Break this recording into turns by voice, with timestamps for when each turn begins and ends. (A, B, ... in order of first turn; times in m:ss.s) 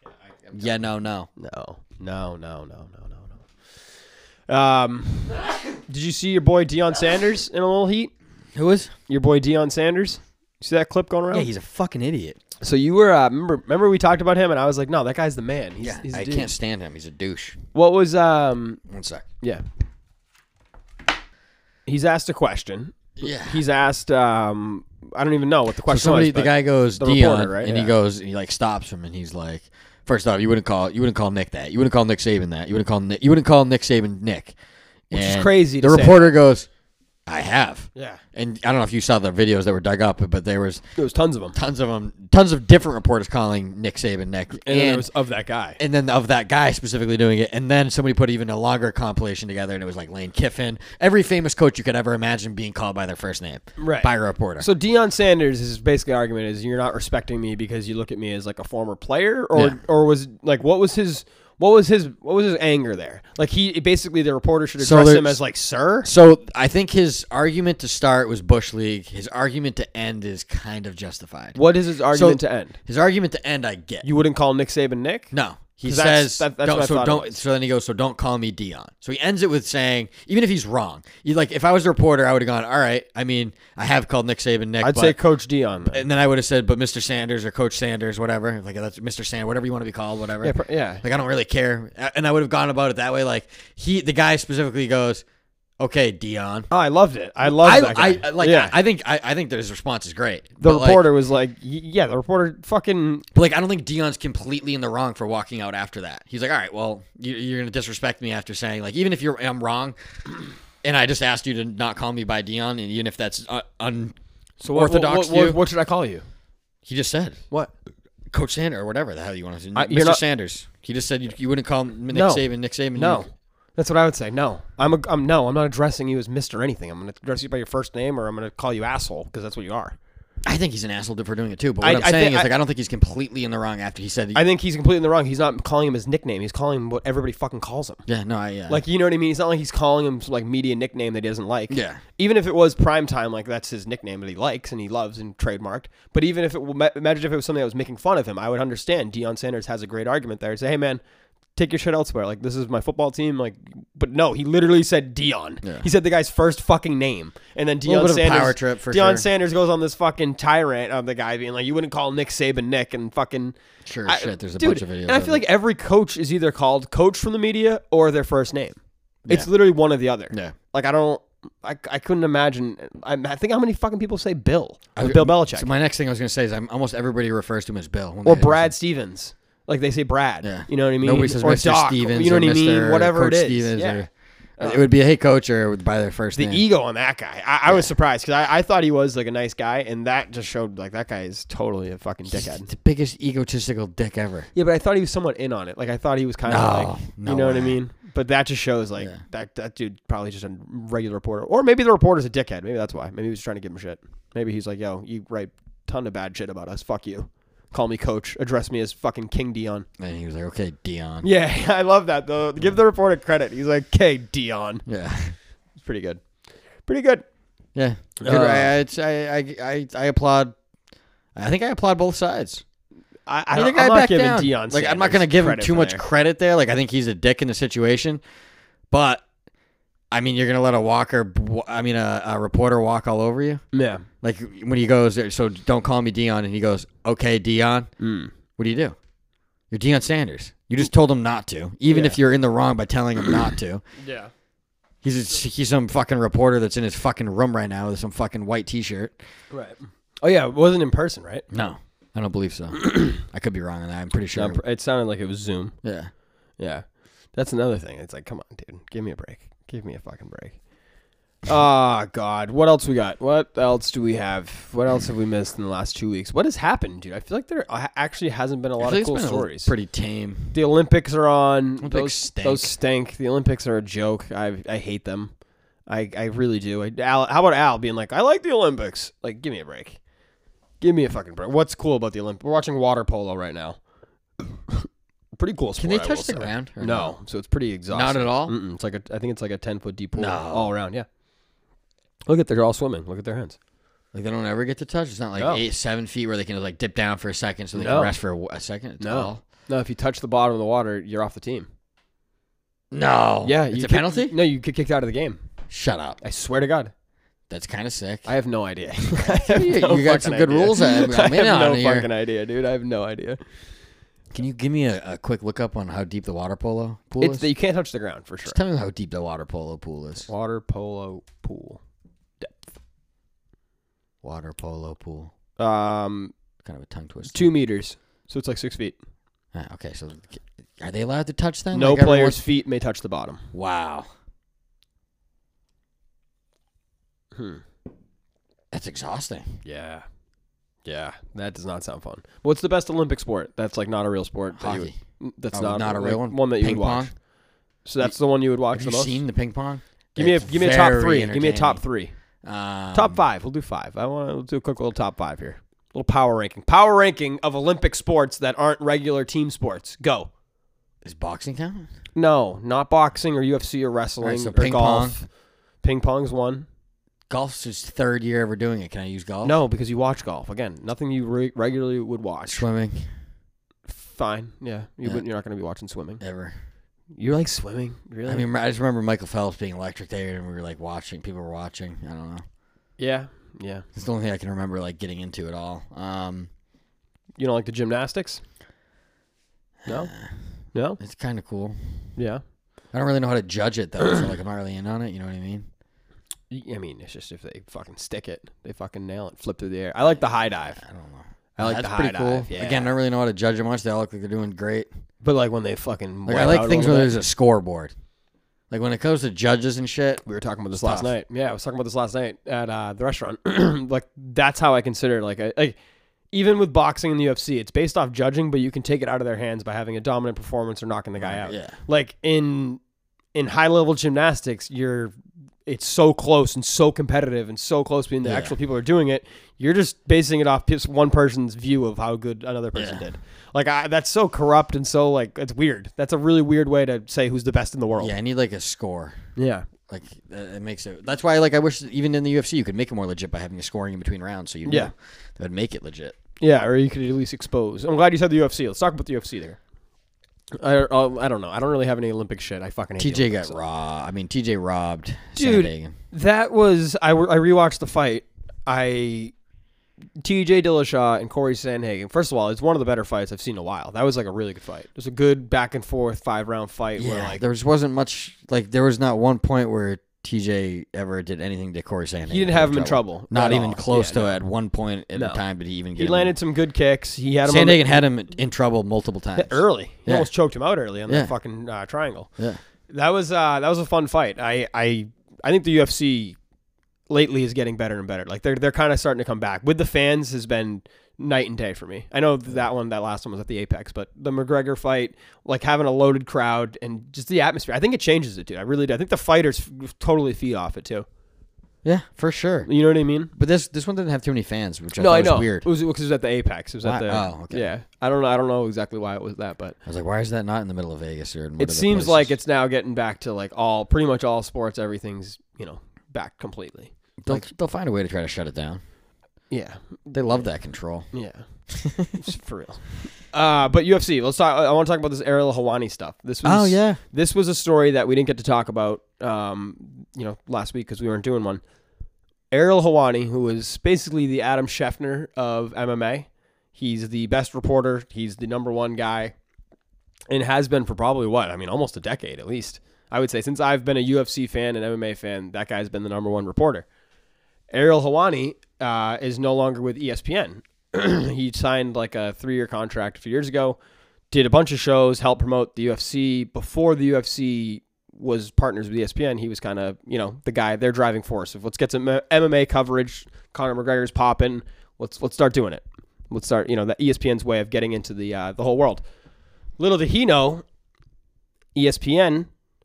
0:00.5-0:01.3 A
0:01.4-0:03.4 B
0:04.5-0:08.1 B
0:08.5-0:08.9 A
0:09.1-0:11.5 B
0:11.3-0:12.4 A
0:12.6-0:16.5 B
0:15.8-0:17.6 A
0:17.7-0:18.8 B
0:18.9-0:19.2 A
0:21.8-0:28.0 B
0:23.2-0:23.6 A
0:25.9-0:34.5 A
0:35.1-0:36.7 A
0:35.1-0:36.3 B
0:37.2-0:40.8 A
0:37.9-0:38.2 B
0:41.0-0:41.5 B
0:41.5-0:45.1 A
0:44.6-0:45.8 B
0:45.8-0:54.7 A
0:53.8-1:06.1 B
1:04.8-1:05.4 A
1:06.0-1:14.1 A
1:11.5-1:12.8 B
1:14.0-1:15.3 B
1:15.3-1:25.2 A
1:15.8-1:17.3 B
1:24.8-1:26.0 B
1:25.9-1:35.2 A
1:30.4-1:31.0 B
1:35.8-1:36.7 A
1:36.7-1:38.7 B
1:37.4-1:41.0 A
1:40.6-1:43.2 B
1:43.3-1:50.0 A
1:50.8-1:54.2 A
1:54.6-1:56.2 B
1:54.7-1:55.6 A
1:56.8-1:57.4 A
1:58.3-2:03.2 A
1:59.7-2:00.2 B
2:02.1-2:10.0 B
2:10.4-2:14.4 A
2:11.8-2:12.5 B
2:14.3-2:18.0 B
2:18.0-2:18.8 A
2:18.7-2:31.0 B
2:21.7-2:22.0 A
2:31.6-2:43.6 B
2:35.6-2:35.9 A
2:37.8-2:39.3 A
2:43.8-2:45.4 A
2:44.1-2:55.7 B
2:55.0-2:58.7 A
2:58.2-3:04.0 B
3:00.4-3:04.1 A
3:04.6-3:04.8 B
3:04.6-3:06.6 A
3:06.4-3:12.7 B
3:12.3-3:14.5 A
3:14.5-3:29.8 B
3:16.4-3:17.8 A
3:30.0-3:31.3 A
3:31.2-3:34.8 B
3:34.8-3:35.3 A
3:35.8-3:36.2 B
3:36.8-3:37.2 B
3:37.7-3:40.5 A
3:38.2-3:38.7 B
3:41.3-3:42.6 A
3:43.3-3:46.0 B
3:43.5-3:48.2 A
3:48.9-3:49.2 A
3:50.1-3:53.6 A
3:53.7-3:54.1 B
3:54.2-3:57.9 A
3:58.0-3:58.3 B
3:58.6-3:59.0 A
3:59.7-4:03.8 A
4:01.8-4:02.2 B
4:04.0-4:04.3 B
4:05.0-4:09.2 A
4:09.5-4:11.4 B
4:11.5-4:14.6 A
4:14.3-4:15.8 B
4:15.8-4:16.1 A
4:16.6-4:20.6 B
4:21.4-4:29.7 B
4:28.8-4:30.6 A
4:30.5-4:35.3 B
4:31.8-4:32.7 A
4:35.9-4:40.0 B
4:40.8-4:43.8 B
4:44.7-4:51.0 B
4:45.8-4:47.2 A
4:47.9-4:48.6 A
4:50.2-4:50.7 A
4:52.3-4:53.6 B
4:54.1-4:59.4 A
4:55.4-4:55.6 B
4:57.7-4:58.1 B
4:59.0-5:01.7 B
5:02.9-5:04.3 A
5:03.4-5:05.4 B
5:05.7-5:06.2 A
5:06.2-5:06.9 B
5:07.5-5:08.3 A
5:08.2-5:13.4 B
5:09.2-5:12.1 A
5:14.3-5:17.5 A
5:17.2-5:18.6 B
5:18.4-5:20.3 A
5:20.3-5:21.8 B
5:24.2-5:25.3 A
5:25.6-5:26.3 B
5:26.6-5:27.5 A
5:27.3-5:29.0 B
5:29.5-5:32.4 A
5:31.7-5:33.4 B
5:33.5-5:34.1 A
5:37.3-5:37.6 B
5:38.7-5:39.4 A
5:39.6-5:40.0 B
5:40.8-5:47.2 B
5:44.6-5:45.0 A
5:45.5-5:47.1 A
5:47.8-5:49.2 B
5:48.7-5:51.8 A
5:50.1-5:52.1 B
5:52.4-5:53.2 A
5:52.9-6:00.3 B
6:01.0-6:01.9 A
6:02.1-6:05.3 B
6:04.2-6:05.2 A
6:05.8-6:06.6 B
6:07.3-6:09.6 A
6:09.4-6:12.6 B
6:12.4-6:13.1 A
6:13.9-6:16.2 B
6:16.2-6:16.6 A
6:17.2-6:18.4 B
6:18.2-6:22.4 A
6:23.0-6:23.8 B
6:23.9-6:26.5 A
6:27.4-6:28.4 B
6:29.8-6:30.3 A
6:30.7-6:31.0 B
6:31.0-6:32.1 A
6:32.2-6:32.4 B
6:32.9-6:35.6 A
6:36.5-6:40.8 B
6:40.7-6:44.9 A
6:41.6-6:42.9 B
6:45.2-6:47.2 B
6:46.3-6:47.9 A
6:48.7-6:51.1 A
6:50.2-6:55.8 B
6:56.3-7:02.8 B
7:01.2-7:01.8 A
7:03.3-7:05.1 B
7:05.6-7:18.2 B
7:08.2-7:08.5 A
7:12.7-7:13.0 A
7:18.0-7:19.2 A
7:19.4-7:19.6 B
7:19.9-7:26.2 A
7:24.6-7:24.9 B
7:26.4-7:29.6 B
7:30.5-7:33.6 B
7:33.0-7:35.9 A
7:35.4-7:39.3 B
7:40.2-7:47.4 B
7:47.0-7:56.3 A
7:52.3-7:54.4 B
7:55.1-7:55.4 B
7:56.0-7:58.0 B
7:57.4-8:00.3 A
7:59.3-8:02.3 B
8:01.1-8:01.3 A
8:02.9-8:06.4 B
8:07.1-8:21.0 B
8:21.8-8:22.7 A
8:22.6-8:23.3 B
8:23.3-8:25.7 A
8:25.0-8:29.8 B
8:26.8-8:27.7 A
8:29.8-8:32.4 A
8:31.6-8:37.4 B
8:37.2-8:38.8 A
8:39.5-8:40.4 B
8:40.1-8:41.1 A
8:41.1-8:51.6 B
8:41.7-8:42.1 A
8:46.4-8:47.0 A
8:52.5-8:59.3 B
9:00.3-9:06.9 B
9:07.7-9:13.8 B
9:14.3-9:29.0 B
9:29.8-9:30.6 B
9:31.7-9:32.5 B